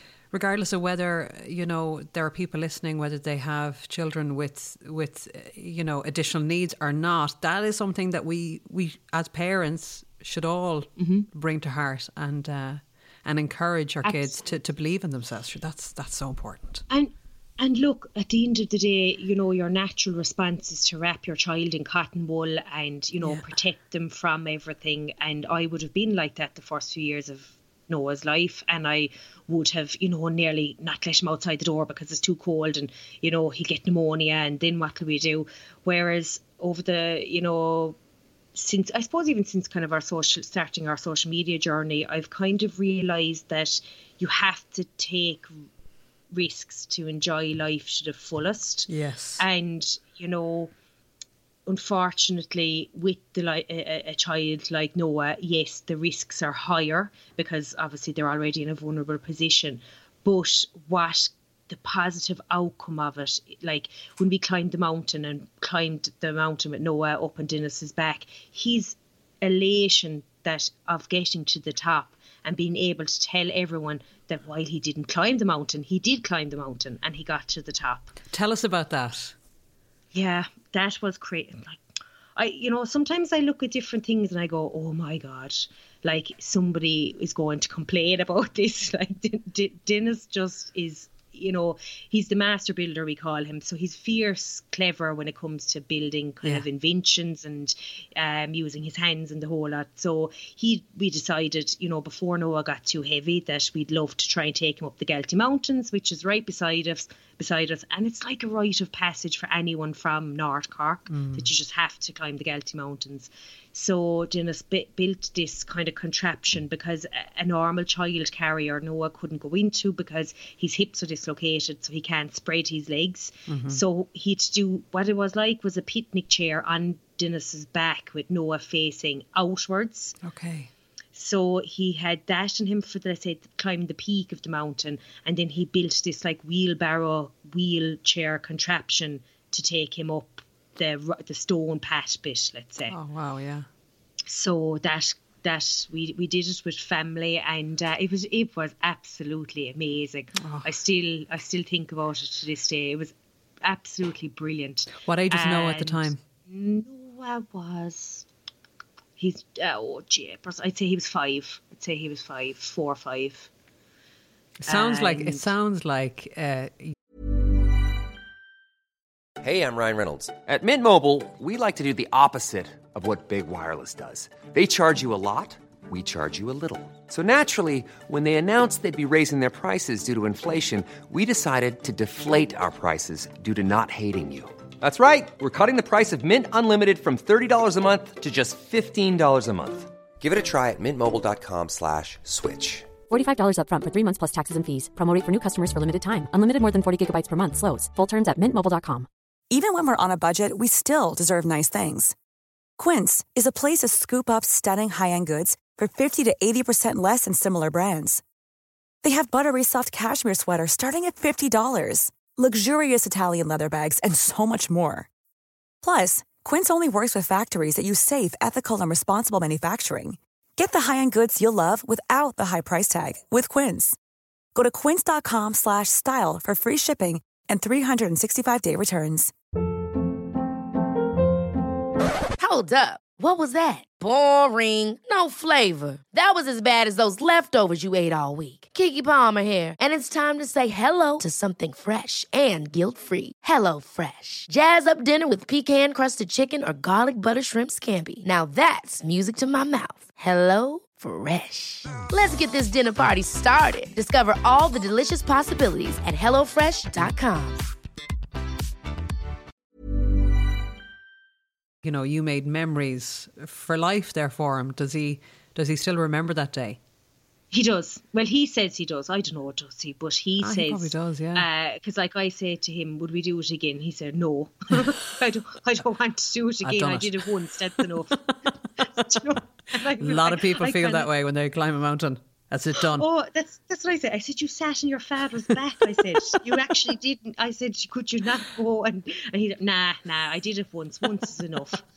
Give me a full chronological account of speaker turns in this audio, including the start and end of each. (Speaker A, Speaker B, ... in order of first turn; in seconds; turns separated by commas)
Speaker A: 0.3-16.8, Speaker B: 11.0-11.3, Speaker B: 14.0-14.4, Speaker B: 16.9-38.0, Speaker B: 38.5-45.6, Speaker B: 46.3-50.7, Speaker A: 48.9-49.4, Speaker B: 51.7-78.1, Speaker A: 78.3-79.3, Speaker B: 80.1-81.8, Speaker B: 82.3-130.2, Speaker A: 111.1-111.5, Speaker A: 123.5-123.8, Speaker A: 130.2-130.7, Speaker B: 131.1-142.9, Speaker A: 142.9-143.7, Speaker B: 144.3-153.1, Speaker A: 150.4-150.7, Speaker B: 153.6-158.2, Speaker A: 155.0-156.2, Speaker B: 159.2-163.5, Speaker A: 164.6-166.9, Speaker B: 164.7-165.4, Speaker C: 169.4-192.9, Speaker D: 193.1-199.1, Speaker E: 199.5-202.1, Speaker E: 202.8-208.2, Speaker E: 209.0-215.1, Speaker E: 215.8-224.0, Speaker E: 224.5-229.3, Speaker F: 232.4-257.6, Speaker A: 261.8-266.8, Speaker B: 267.5-278.2, Speaker A: 270.4-271.4, Speaker A: 276.6-277.3, Speaker A: 278.2-278.5, Speaker B: 279.0-281.1, Speaker A: 280.0-283.0, Speaker B: 282.8-291.8